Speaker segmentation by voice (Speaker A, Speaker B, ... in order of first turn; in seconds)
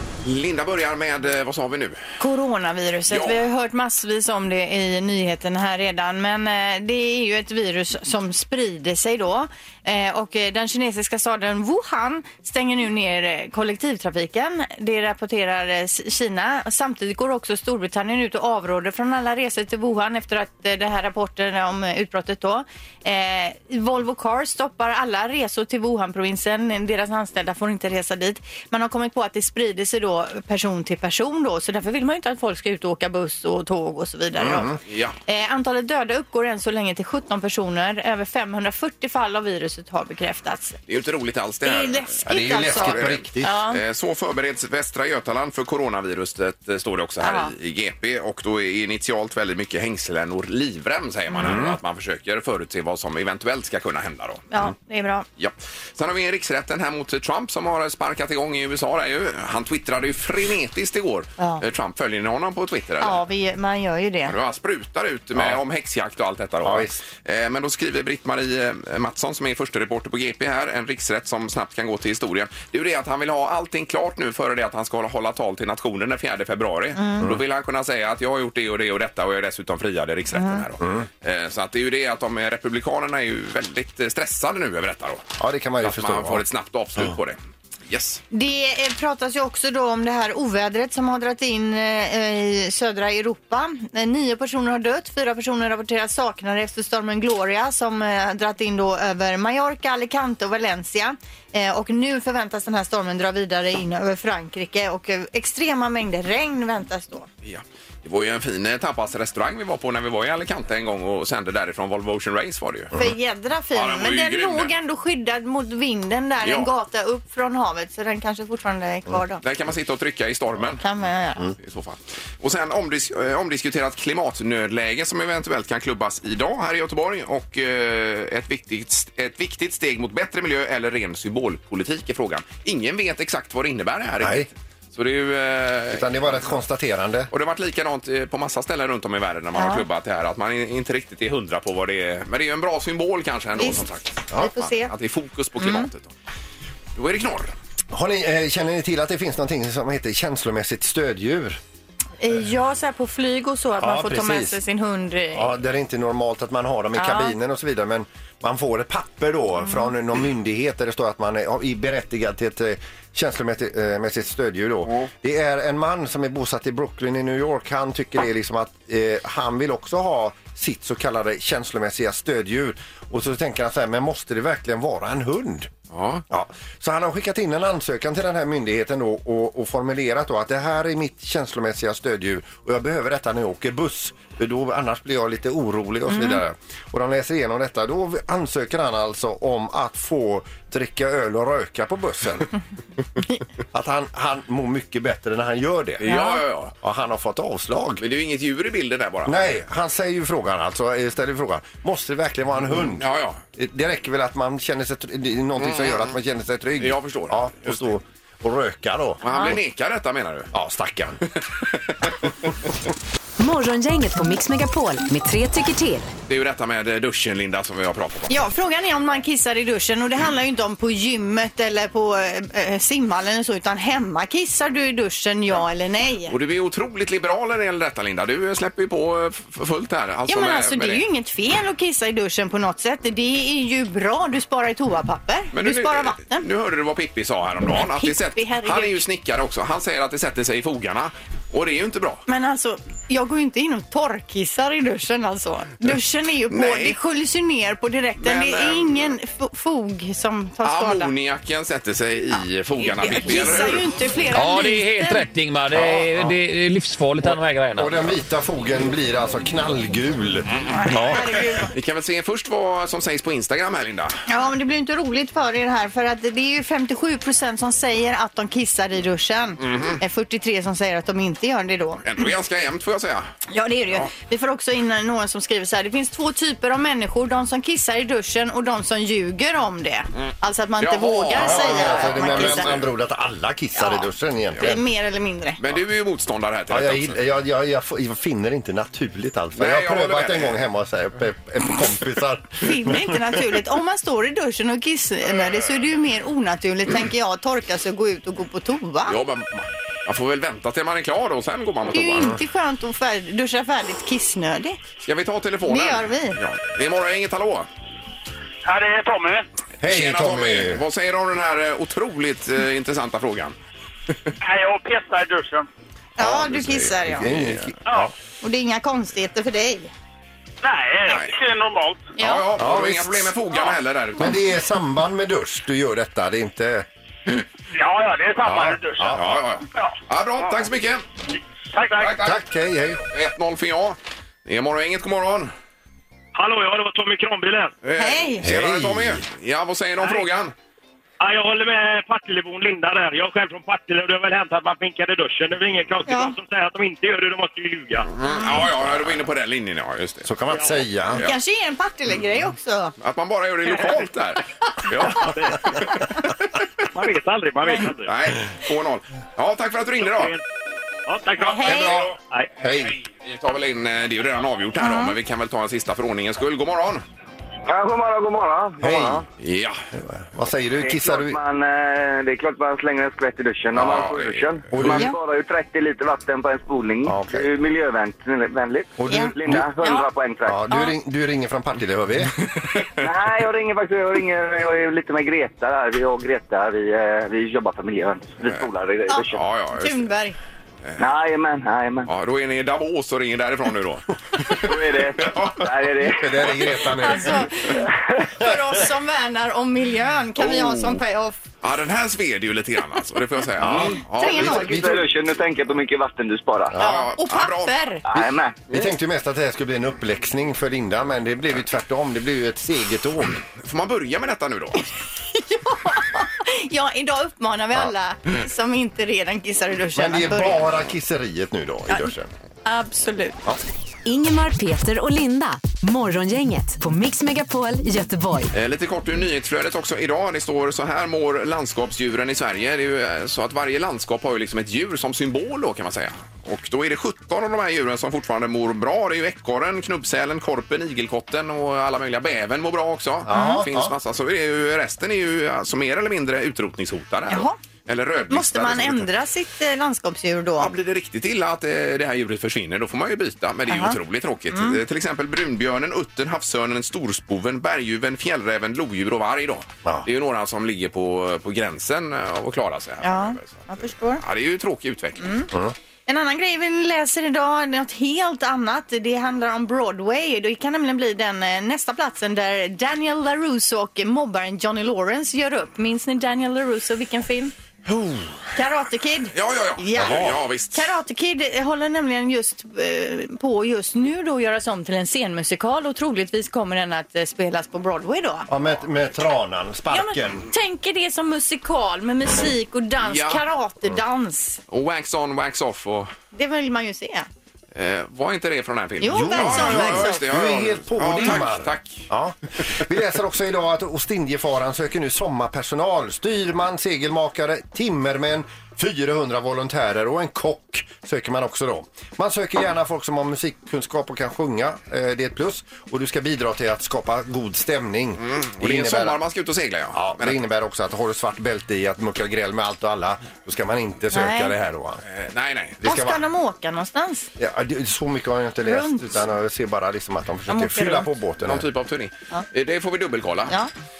Speaker A: 0.2-2.0, 3.1-3.4, 34.9-35.2, 40.9-54.7, 55.4-63.2, 64.3-85.2, 85.8-88.2, 107.4-112.9, 113.7-114.7, 116.4-116.7, 119.4-120.8, 121.6-136.4, 137.3-146.1, 147.0-147.5, 175.9-176.2, 196.0-196.7, 198.0-199.6, 202.9-203.4, 205.6-206.2, 206.8-207.9, 209.2-210.5, 211.6-212.2, 216.3-218.5, 226.3-231.0, 235.5-242.2, 246.5-247.0, 248.2-249.1, 250.6-253.9, 261.7-264.2, 269.6-270.0, 272.0-273.3, 280.2-282.9, 285.6-287.2, 289.6-290.6, 299.1-302.3, 305.0-307.7, 309.8-313.6, 316.5-317.6, 321.1-321.4, 322.2-324.4, 329.1-331.1, 332.0-332.4, 333.1-335.5, 337.8-340.5, 348.1-350.3, 353.0-355.9, 358.1-360.3, 361.7-362.1, 363.1-367.0, 369.4-369.8, 373.8-375.1, 389.3-390.1, 392.1-395.7, 400.4-401.0, 401.6-404.7, 406.8-407.8, 413.6-414.9, 428.5-449.1, 450.6-465.2, 477.9-478.5, 479.3-480.8, 493.0-493.4, 494.7-496.1, 497.7-502.1, 518.2-520.4, 525.1-525.8, 531.4-533.6
Speaker B: 2.2-34.7, 35.3-40.8, 41.6-43.8, 47.2-47.5, 54.5-55.3, 63.0-64.3, 77.0-77.3, 80.3-80.6, 88.3-107.3, 113.0-119.4, 120.8-121.5, 139.6-139.8, 143.6-144.9, 145.6-145.9, 152.2-155.5, 157.0-157.3, 186.1-186.4, 196.1-196.4, 209.3-209.6, 218.3-226.3, 230.3-236.4, 237.8-239.0, 242.3-251.1, 252.8-255.3, 260.8-261.7, 264.3-272.1, 273.5-282.7, 283.8-284.1, 284.6-285.6, 292.6-299.2, 301.9-304.8, 305.7-306.4, 316.2-317.3, 318.4-319.9, 322.2-322.4, 338.0-338.5, 346.1-346.3, 351.2-352.9, 361.4-362.1, 364.8-365.1, 374.9-375.1, 379.1-380.1, 380.7-380.9, 389.1-390.4, 396.9-401.4, 404.1-404.9, 406.8-408.1, 415.3-420.6, 422.6-423.4, 443.3-443.6, 447.3-447.6, 448.3-450.7, 453.7-454.0, 454.5-454.8, 463.0-464.2, 465.2-465.5, 466.1-477.5, 478.6-488.5, 489.9-494.6, 496.3-497.3, 499.0-500.2, 524.1-524.5, 525.8-527.3, 528.6-529.1, 530.5-531.1
Speaker C: 34.4-34.8, 42.3-43.6, 51.4-51.8, 66.6-67.0, 85.4-86.5, 134.2-134.5, 135.9-137.3, 147.9-151.6, 153.8-154.6, 155.3-175.7, 176.3-192.5, 193.7-196.2, 196.8-198.0, 199.3-209.5, 210.5-211.2, 255.8-256.3, 257.2-261.2, 281.4-284.8, 286.7-293.4, 309.8-310.8, 316.2-318.1, 322.6-323.3, 324.2-326.9, 328.4-329.2, 332.2-333.0, 338.4-339.2, 350.2-351.2, 362.6-362.9, 368.8-369.2, 369.9-371.4, 374.7-375.1, 377.1-377.5, 379.0-379.7, 380.5-382.4, 396.1-397.5, 403.6-405.1, 406.7-407.0, 408.2-413.4, 419.9-422.3, 443.2-443.9, 480.0-480.4, 488.5-490.5, 499.1-519.2, 519.9-525.0, 525.8-526.2, 527.4-531.7
Speaker D: 213.4-216.1, 424.1-428.5
Speaker E: 254.3-258.0
Speaker F: 308.6-309.5, 314.4-315.7, 317.9-318.1, 320.6-322.1, 327.7-329.2, 331.7-332.3, 336.4-337.7, 341.2-348.1, 350.5-350.8, 355.2-355.8, 356.9-358.1, 360.0-360.4, 361.1-362.5
Speaker G: 367.6-369.2, 370.8-380.6, 383.0-389.4, 391.0-392.1, 394.5-396.4, 404.6-406.8, 408.1-408.6